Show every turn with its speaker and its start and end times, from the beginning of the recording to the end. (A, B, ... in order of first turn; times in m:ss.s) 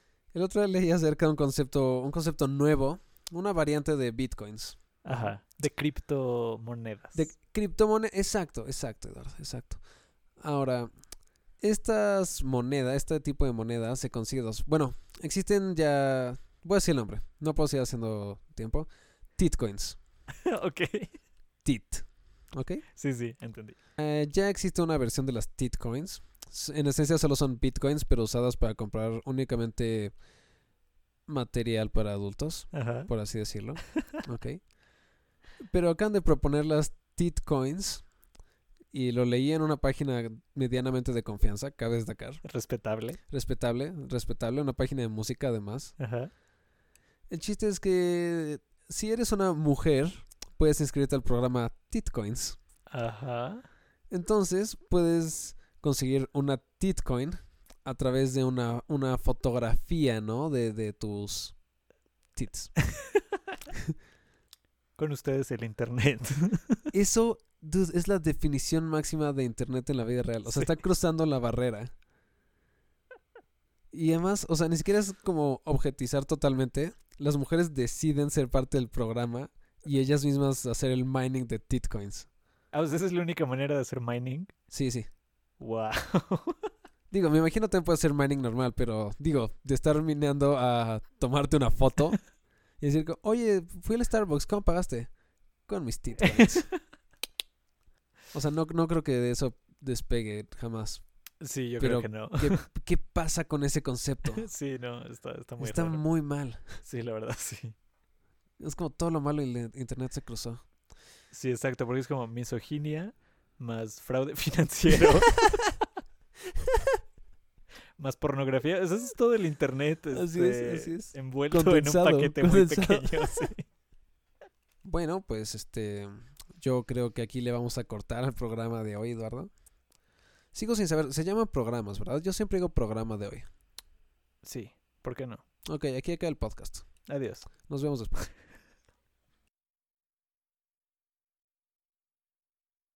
0:00.3-0:04.8 A
0:05.0-0:07.2 B
0:07.2-0:09.8 A
0:10.4-0:10.9 A
0:11.6-0:20.0 A
0:20.4-0:21.2 B
0:21.6-0:22.8 A
0:23.0-0:23.8 B
0:24.0-0:30.1 A
0:31.3-0:34.6 A
0:32.7-0:33.1 B
0:35.6-0:38.1 A
0:38.9-0:42.4 A
0:42.4-0:43.2 B
0:43.3-0:45.9 A
0:46.0-0:46.3 B
0:47.3-0:52.6 A
0:52.9-0:53.6 B
0:54.1-1:01.6 A
1:02.4-1:02.8 A
1:05.0-1:06.9 B
1:06.9-1:11.9 A
1:10.5-1:10.8 B
1:13.9-1:22.3 A
1:22.7-1:24.5 B
1:24.7-1:25.1 A
1:25.6-1:26.6 B
1:27.1-1:32.2 A
1:32.8-1:35.1 A
1:35.7-1:36.7 A
1:36.2-1:36.6 B
1:38.3-1:41.0 A
1:41.4-1:42.6 B
1:41.8-1:44.5 A
1:44.4-1:46.0 B
1:45.6-1:46.8 A
1:46.8-1:47.8 B
1:48.6-1:50.6 A
1:51.3-1:55.4 B
1:58.0-2:03.6 B
2:00.1-2:03.3 A
2:04.8-2:09.5 A
2:10.5-2:13.5 A
2:14.4-2:15.4 B
2:15.7-2:16.9 A
2:17.1-2:17.5 B
2:17.7-2:18.3 A